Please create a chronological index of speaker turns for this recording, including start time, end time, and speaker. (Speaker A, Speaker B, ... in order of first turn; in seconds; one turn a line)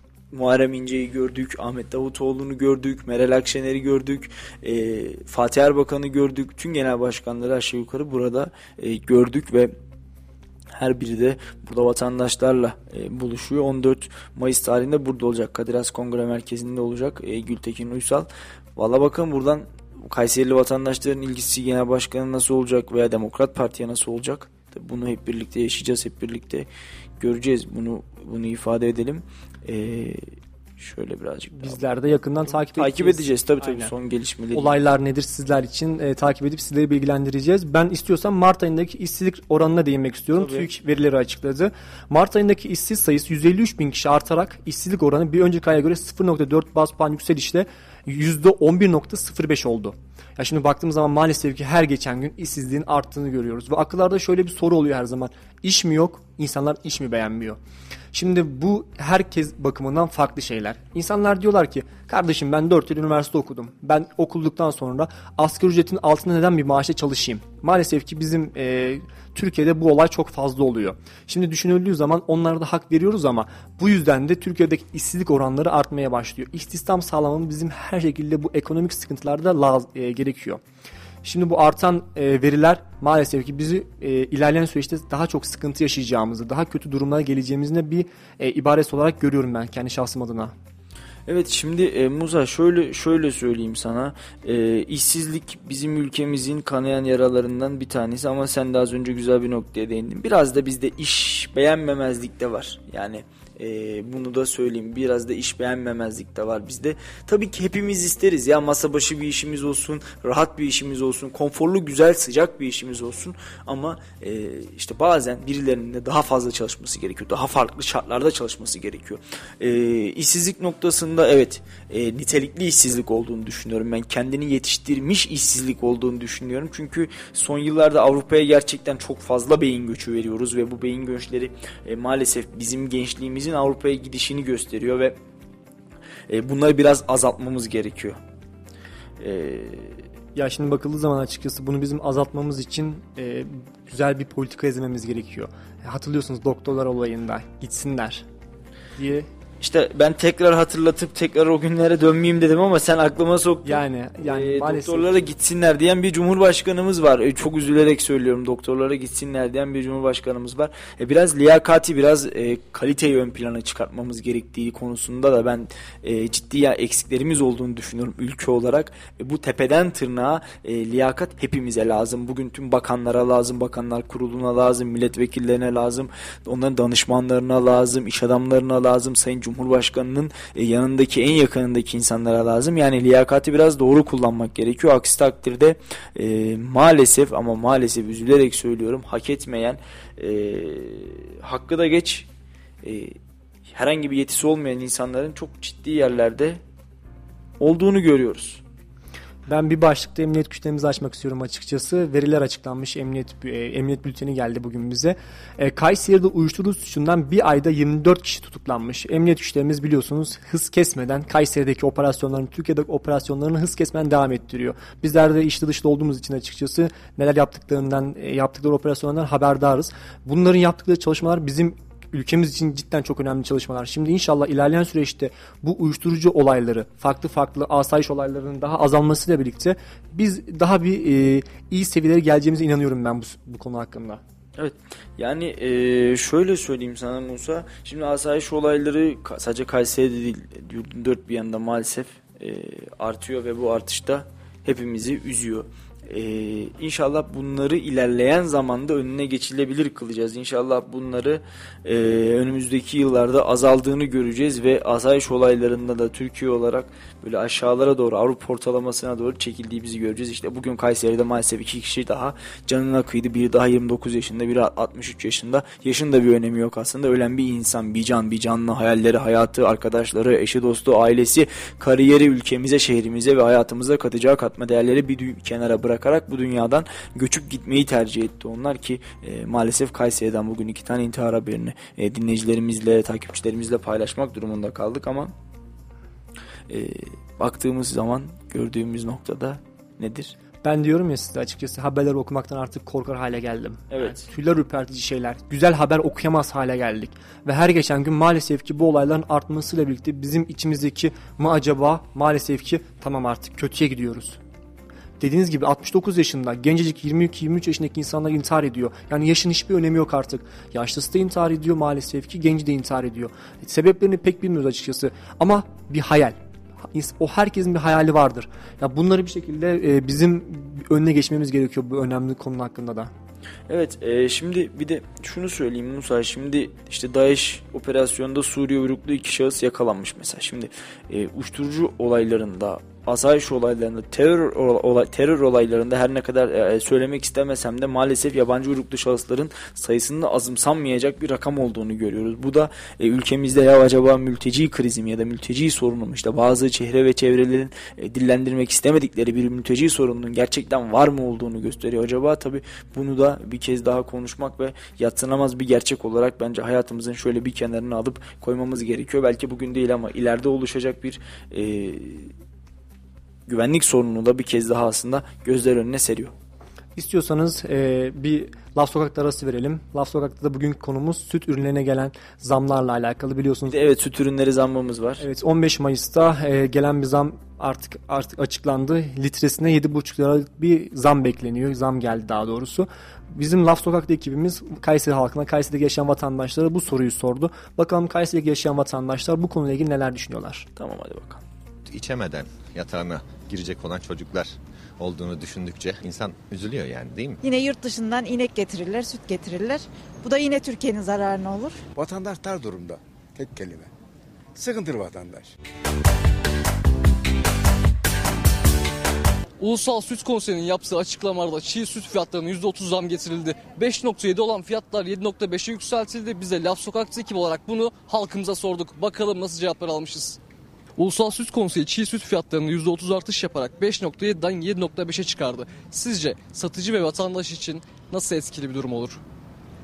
Speaker A: 0.3-9.7
Speaker A: 10.7-26.7
Speaker A: 27.2-30.2
Speaker A: 30.8-31.8
Speaker B: 31.5-33.9
Speaker A: 32.6-34.7
Speaker B: 34.5-57.6
Speaker A: 40.4-40.7
Speaker B: 58.1-80.6
Speaker B: 81.2-90.5
Speaker A: 91.3-135.2
Speaker A: 136.3-138.2
Speaker A: 139.2-140.0
Speaker B: 140.3-148.3
Speaker B: 149.0-149.3
Speaker A: 149.6-192.3
Speaker B: 153.7-155.3
Speaker A: 192.8-193.2
Speaker A: 193.7-196.6
Speaker A: 197.6-198.6
Speaker B: 199.5-234.2
Speaker A: 234.6-285.3
Speaker A: 286.7-290.4
Speaker B: 290.6-304.4
Speaker A: 293.9-294.2
Speaker B: 305.2-316.4
Speaker B: 316.9-323.1
Speaker A: 323.7-362.3
Speaker A: 363.5-366.3
Speaker B: 367.0-373.8
Speaker A: 373.7-375.2
Speaker B: 375.2-390.7
Speaker A: 390.8-391.4
Speaker C: 391.9-397.4
Speaker D: 397.4-401.8
Speaker E: 402.0-403.9
Speaker E: 404.6-405.5
Speaker F: 409.6-420.4
Speaker F: 421.0-429.2